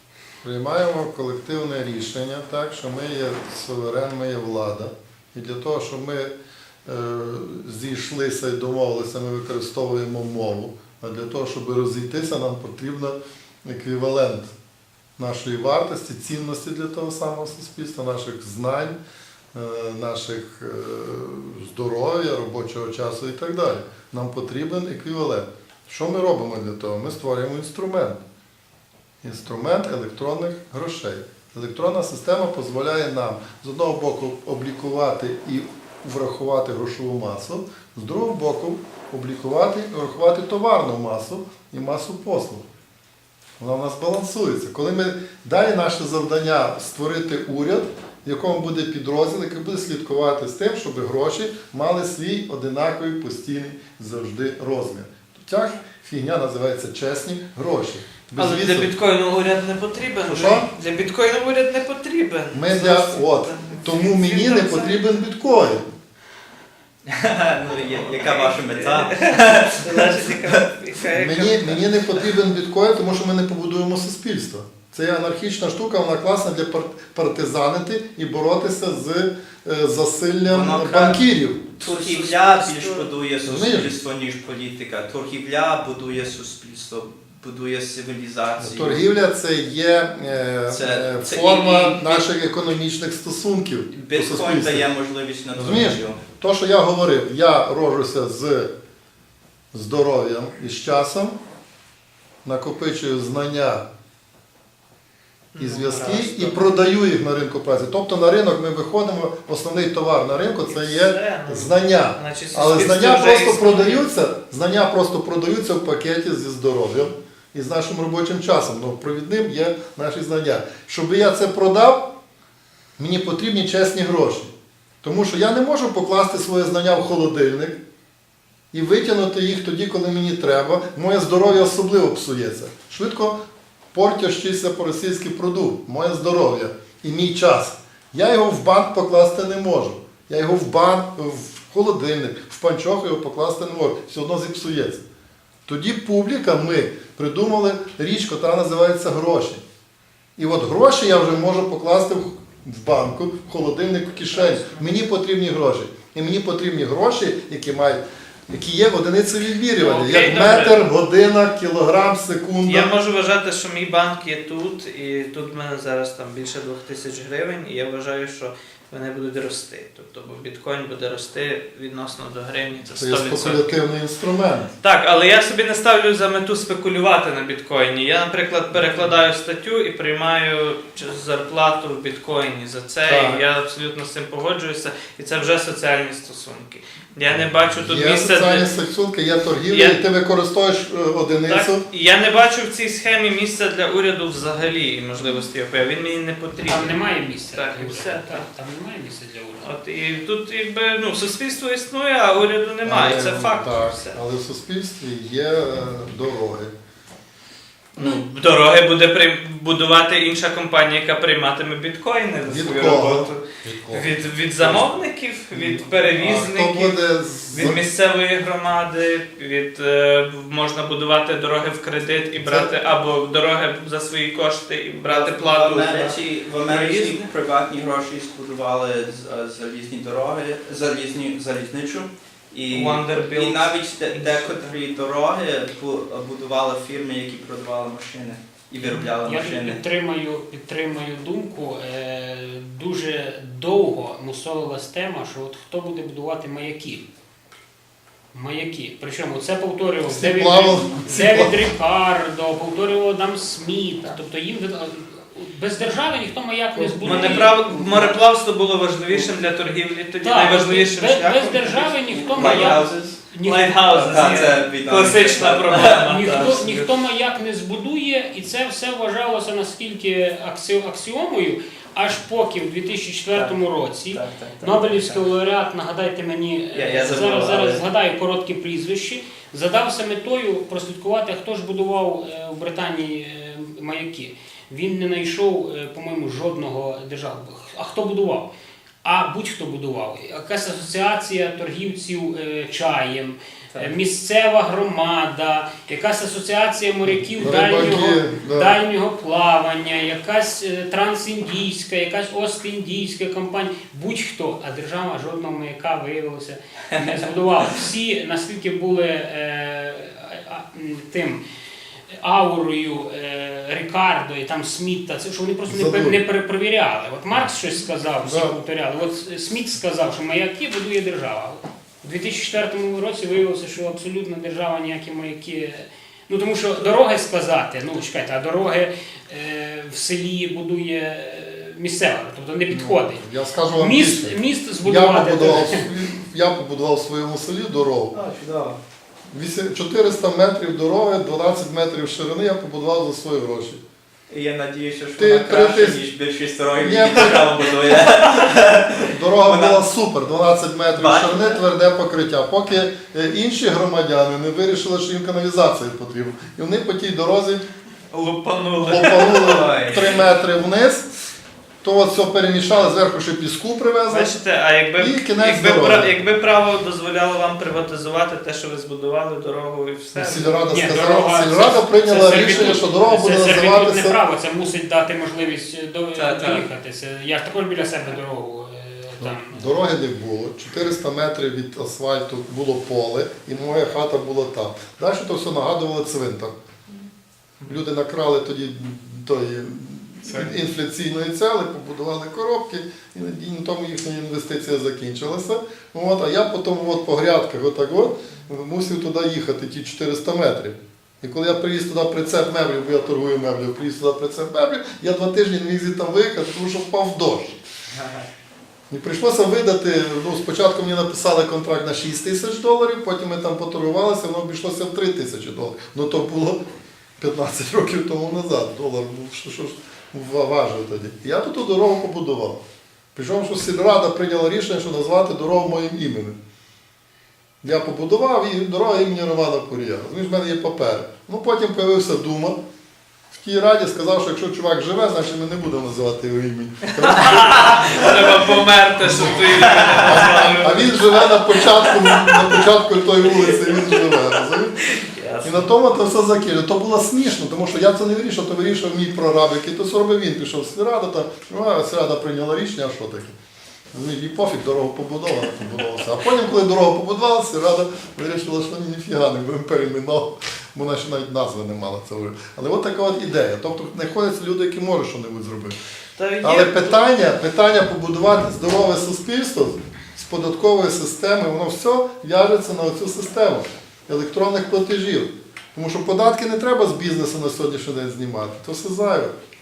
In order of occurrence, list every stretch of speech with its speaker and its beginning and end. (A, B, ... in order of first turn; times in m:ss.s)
0:00.4-0:06.3 A
0:06.9-0:14.5 A
0:15.2-0:19.0 A
0:19.5-0:28.2 A
0:29.2-0:42.6 A
0:43.6-0:58.9 A
0:58.4-1:05.2 B
1:00.2-1:00.7 A
1:02.5-1:05.9 A
1:07.1-1:10.6 C
1:07.8-1:11.9 B
1:11.1-1:21.7 A
1:20.5-1:21.2 C
1:21.8-1:23.1 B
1:21.8-1:29.0 C
1:23.4-1:24.0 A
1:28.6-1:34.9 A
1:30.7-1:32.2 C
1:33.9-1:36.2 C
1:35.5-1:38.7 A
1:39.7-1:41.4 A
1:42.4-1:43.8 A
1:45.5-1:46.6 B
1:45.6-2:02.1 A
1:50.7-1:54.0 B
2:03.0-2:04.5 A
2:05.0-2:07.8 A
2:08.7-2:13.4 A
2:13.9-2:25.0 A
2:25.7-2:29.6 A
2:30.4-2:42.9 A
2:34.2-2:34.9 B
2:39.8-2:40.8 B
2:42.6-2:53.8 B
2:53.0-2:54.7 A
2:54.8-3:08.7 B
3:03.0-3:03.4 A
3:07.3-3:11.8 A
3:09.7-3:10.0 B
3:11.4-3:18.5 B
3:16.6-3:19.7 D
3:19.6-3:24.2 B
3:22.8-3:26.7 A
3:28.0-3:37.0 B
3:32.4-3:34.9 A
3:35.5-3:37.8 A
3:37.5-3:47.3 B
3:42.4-3:42.7 A
3:45.0-3:59.8 C
3:52.7-3:54.8 B
3:59.2-4:07.1 D
4:08.3-4:17.6 D
4:10.1-4:11.6 A
4:16.8-4:17.4 A
4:17.0-4:22.8 B
4:17.6-4:18.2 C
4:20.2-4:24.4 D
4:22.3-4:23.2 C
4:23.4-4:26.9 B
4:23.8-4:26.1 C
4:26.0-4:48.5 D
4:33.3-4:33.6 C
4:34.1-4:35.2 C
4:36.7-4:37.8 C
4:49.0-5:11.4 D
4:57.1-4:58.8 A
5:12.1-5:35.9 D
5:15.7-5:16.2 A
5:18.2-5:18.6 A
5:32.7-5:38.2 A
5:38.1-5:38.8 C
5:39.3-5:43.8 A
5:44.3-5:49.8 C
5:45.2-5:46.0 A
5:46.8-5:47.5 A
5:49.0-5:57.6 A
5:50.9-5:51.6 C
5:58.1-5:59.6 B
5:58.8-6:01.1 A
5:59.4-6:00.2 C
6:01.8-6:04.4 A
6:04.1-6:10.6 B
6:05.0-6:06.2 A
6:10.1-6:14.2 A
6:10.7-6:19.8 D
6:12.1-6:12.8 B
6:16.2-6:16.7 B
6:19.2-6:26.5 A
6:27.7-6:47.6 A
6:47.9-6:48.3 C
6:48.9-6:56.6 A
6:57.2-7:02.6 A
7:03.2-7:06.4 A
7:07.6-7:12.6 A
7:13.3-7:24.9 A
7:17.0-7:21.1 B
7:21.7-7:22.4 B
7:23.2-7:24.2 B
7:24.8-7:25.7 B
7:25.4-7:33.4 A
7:33.9-7:45.8 A
7:46.2-7:47.0 B
7:46.4-7:59.3 A